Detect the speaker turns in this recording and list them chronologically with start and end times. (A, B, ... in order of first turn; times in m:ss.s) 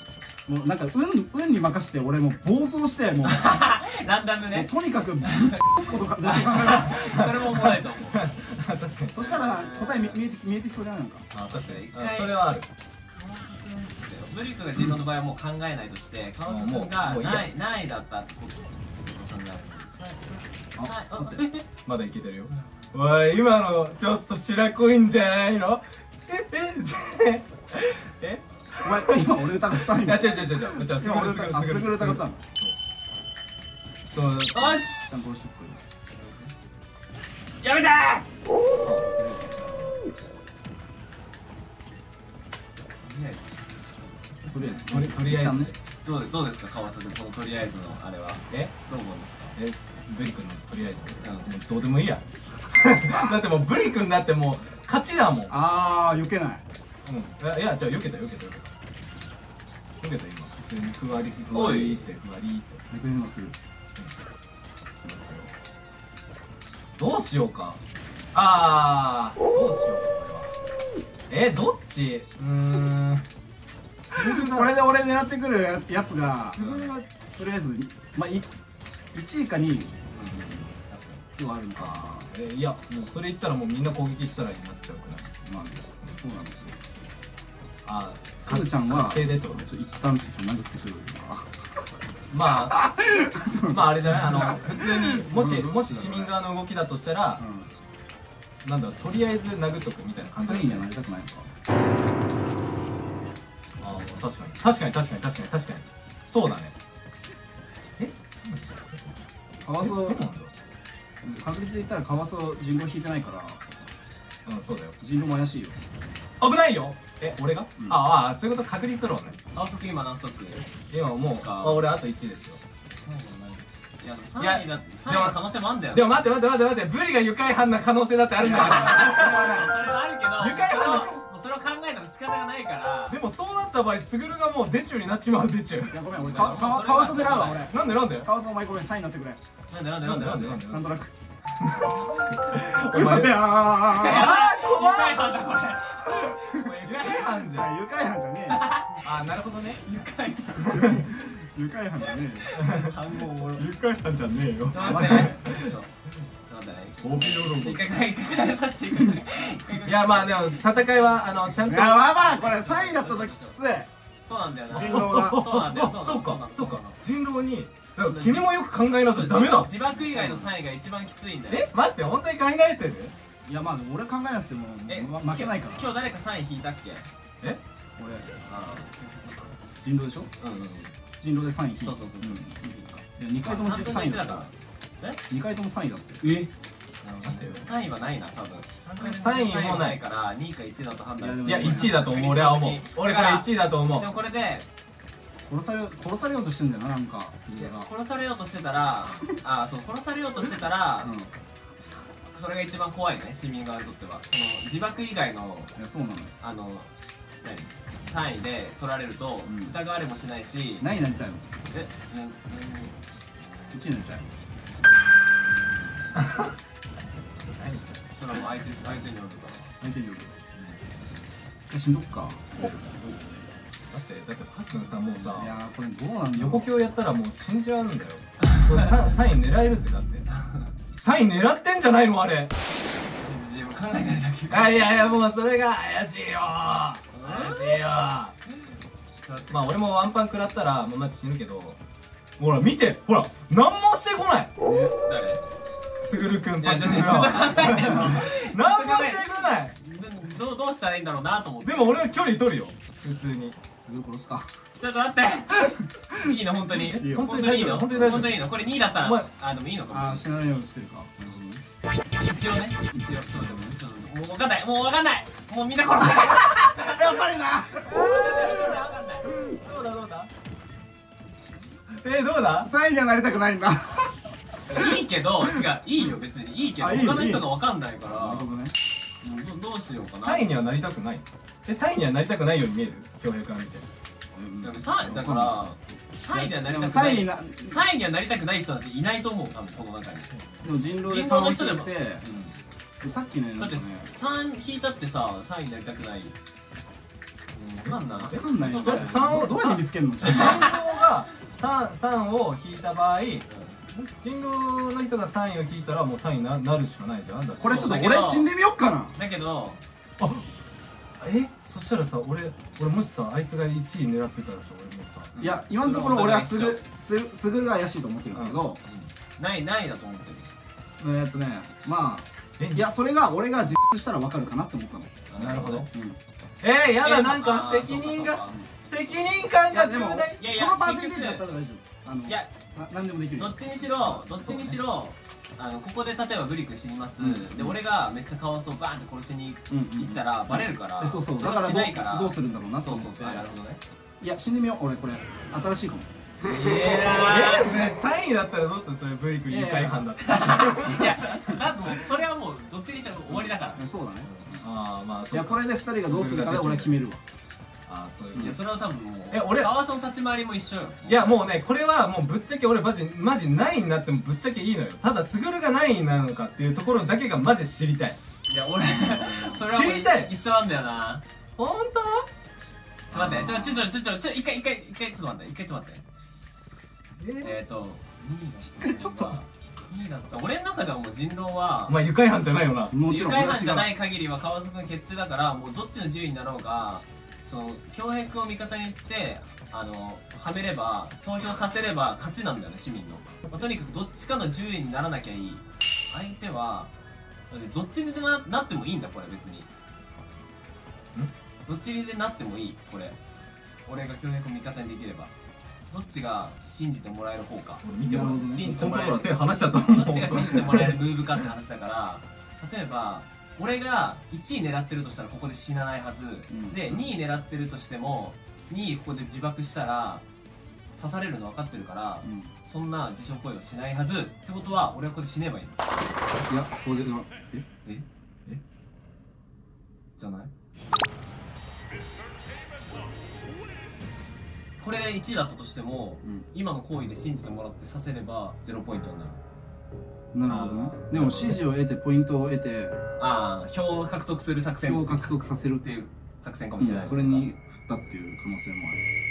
0:00.5-0:03.6 A
0:03.2-0:04.7 B
0:04.5-0:07.0 A
0:05.3-0:05.6 B
0:06.2-0:08.2 B
0:06.8-0:09.3 C
0:09.1-0:11.2 A
0:09.2-0:10.2 B
0:11.3-0:12.6 C
0:11.5-0:12.4 B
0:13.1-0:21.6 B
0:16.4-0:17.5 C
0:21.2-0:32.7 C
0:22.5-0:22.9 B
0:28.8-0:32.4 A
0:34.1-0:34.9 C
0:34.5-0:35.2 B
0:35.1-0:35.8 A
0:36.1-0:36.5 B
0:37.6-0:38.3 B
0:38.8-0:39.1 C
0:39.4-0:40.0 B
0:43.0-0:44.3 B
0:44.5-0:45.7 A
0:44.8-0:45.8 C
0:46.0-0:49.6 B
0:49.6-0:55.5 C
0:51.2-0:51.5 B
0:55.5-0:56.6 A
0:57.0-0:58.7 C
1:00.0-1:02.8 C
1:01.5-1:02.0 B
1:02.9-1:03.6 A
1:05.0-1:05.5 C
1:07.0-1:07.8 C
1:08.3-1:10.5 C
1:11.3-1:13.2 C
1:14.1-1:14.8 C
1:14.4-1:18.5 A
1:16.5-1:17.0 C
1:16.6-1:16.9 B
1:19.1-1:20.0 A
1:20.1-1:21.2 B
1:21.4-1:22.3 A
1:21.8-1:25.3 C
1:25.4-1:26.8 A
1:27.8-1:29.6 C
1:28.4-1:31.8 A
1:32.3-1:32.8 C
1:32.5-1:36.4 A
1:33.7-1:37.4 C
1:37.4-1:37.7 A
1:38.6-1:40.8 C
1:40.4-1:41.5 A
1:43.8-1:46.7 C
1:48.0-1:49.1 C
1:49.6-1:50.2 A
1:49.8-1:50.5 C
1:51.2-1:53.6 A
1:54.4-1:55.0 C
1:55.0-1:55.8 A
1:56.4-1:59.4 C
1:59.5-2:00.7 B
2:00.9-2:02.6 C
2:01.2-2:01.8 B
2:02.9-2:06.2 B
2:04.4-2:05.4 C
2:05.9-2:09.8 C
2:08.4-2:09.8 A
2:08.4-2:13.2 B
2:10.3-2:11.2 C
2:13.1-2:18.3 C
2:15.9-2:19.4 A
2:16.1-2:17.7 B
2:19.7-2:20.6 B
2:20.0-2:21.0 C
2:20.7-2:21.1 A
2:21.6-2:25.4 C
2:22.5-2:24.3 A
2:23.9-2:27.4 B
2:26.1-2:26.5 A
2:26.8-2:27.7 C
2:27.4-2:28.7 A
2:28.5-2:29.1 B
2:29.0-2:29.9 C
2:29.8-2:30.9 B
2:30.6-2:32.5 A
2:30.7-2:31.0 C
2:32.4-2:33.6 B
2:32.5-2:33.0 C
2:33.5-2:35.7 C
2:34.7-2:35.9 B
2:34.8-2:35.3 A
2:36.5-2:40.7 B
2:37.0-2:37.8 C
2:39.8-2:42.1 C
2:41.6-2:43.9 A
2:42.0-2:43.6 B
2:44.2-2:47.0 B
2:44.7-2:45.5 A
2:44.7-2:49.7 C
2:48.0-2:48.5 B
2:49.1-2:51.7 B
2:50.1-2:50.5 A
2:51.5-2:53.1 C
2:53.4-2:55.9 A
2:54.9-2:57.1 B
2:58.0-2:58.4 A
2:58.4-2:59.5 B
2:59.8-3:00.3 A
3:00.4-3:00.9 B
3:01.2-3:04.5 A
3:01.8-3:05.2 B
3:05.3-3:06.4 A
3:07.0-3:14.7 B
3:07.2-3:07.7 C
3:09.0-3:10.0 C
3:11.2-3:12.0 A
3:11.4-3:14.1 C
3:15.4-3:17.9 A
3:17.6-3:21.1 B
3:21.0-3:21.3 A
3:22.3-3:25.7 B
3:25.7-3:26.3 A
3:26.4-3:26.9 B
3:27.4-3:30.8 B
3:29.4-3:29.8 A
3:30.8-3:31.5 A
3:31.7-3:33.8 B
3:33.7-3:34.3 A
3:36.2-3:36.5 C
3:37.5-3:38.1 C
3:38.2-3:39.7 B
3:39.8-3:40.4 A
3:41.7-3:42.7 A
3:42.6-3:43.1 B
3:43.9-3:45.6 C
3:45.3-3:46.7 A
3:46.4-3:50.3 C
3:50.3-3:50.7 B
3:50.9-3:52.5 C
3:53.2-3:55.1 B
3:54.5-3:58.3 C
3:57.1-3:57.7 B
3:58.5-3:59.6 B
3:59.5-4:01.8 C
4:02.4-4:04.5 C
4:04.6-4:05.4 B
4:06.0-4:09.8 C
4:06.6-4:12.0 B
4:11.6-4:13.6 C
4:13.8-4:14.5 A
4:14.8-4:20.2 B
4:16.8-4:17.5 A
4:17.0-4:19.3 C
4:19.9-4:21.6 A
4:22.1-4:27.1 B
4:22.9-4:23.8 A
4:26.7-4:28.0 A
4:27.8-4:29.3 B
4:27.9-4:30.3 C
4:32.0-4:32.7 C
4:32.6-4:34.2 A
4:34.7-4:38.5 B
4:36.8-4:39.5 A
4:39.4-4:40.5 B
4:40.2-4:43.9 C
4:44.3-4:47.8 A
4:44.6-4:50.3 B
4:50.6-4:52.2 A
4:51.0-4:52.5 B
4:53.0-4:54.1 A
4:53.6-4:56.3 B
4:57.5-4:59.3 B
4:57.8-5:07.9 C
4:58.3-5:00.7 A
5:00.3-5:00.8 B
5:03.5-5:03.8 B
5:07.6-5:09.2 A
5:07.6-5:08.5 B
5:09.1-5:09.8 B
5:10.2-5:10.4 C
5:11.2-5:15.3 C
5:15.4-5:16.8 B
5:15.4-5:18.8 A
5:18.3-5:18.6 C
5:18.8-5:20.5 B
5:21.0-5:25.2 A
5:22.6-5:22.9 C
5:25.3-5:25.9 B
5:25.4-5:25.9 C
5:25.9-5:26.2 A
5:26.6-5:30.4 C
5:27.0-5:28.6 B
5:29.7-5:33.8 A
5:30.4-5:31.4 B
5:32.2-5:32.5 B
5:33.4-5:43.8 B
5:33.9-5:34.8 C
5:37.2-5:37.8 A
5:39.7-5:43.4 A
5:44.2-5:47.1 A
5:46.4-5:51.6 C
5:46.4-5:47.8 B
5:49.5-5:50.0 A
5:50.2-5:53.8 B
5:53.8-5:54.3 A
5:54.3-5:57.0 C
5:55.3-5:57.2 A
5:57.9-5:58.6 C
5:58.4-6:01.4 B
5:59.3-5:59.7 C
6:01.1-6:08.2 C
6:08.5-6:11.2 B
6:09.1-6:10.3 C
6:11.6-6:12.3 C
6:13.1-6:13.9 C
6:13.1-6:16.0 B
6:17.2-6:17.5 C
6:17.4-6:22.0 B
6:18.7-6:19.4 A
6:21.9-6:22.9 C
6:22.9-6:23.9 A
6:23.0-6:36.9 B
6:37.5-6:39.7 B
6:41.7-6:43.2 B
6:43.9-6:45.3 B
6:45.9-6:47.8 B
6:47.8-6:51.0 C
6:48.0-6:48.8 A
6:48.5-7:00.2 B
6:56.5-6:56.8 A
7:01.0-7:06.1 B
7:02.2-7:02.5 A
7:06.5-7:07.6 A
7:10.2-7:10.5 B
7:14.8-7:19.4 B
7:20.3-7:22.9 A
7:20.4-7:21.6 C
7:23.2-7:25.3 B
7:24.8-7:25.8 A
7:25.8-7:27.5 B
7:26.8-7:29.0 A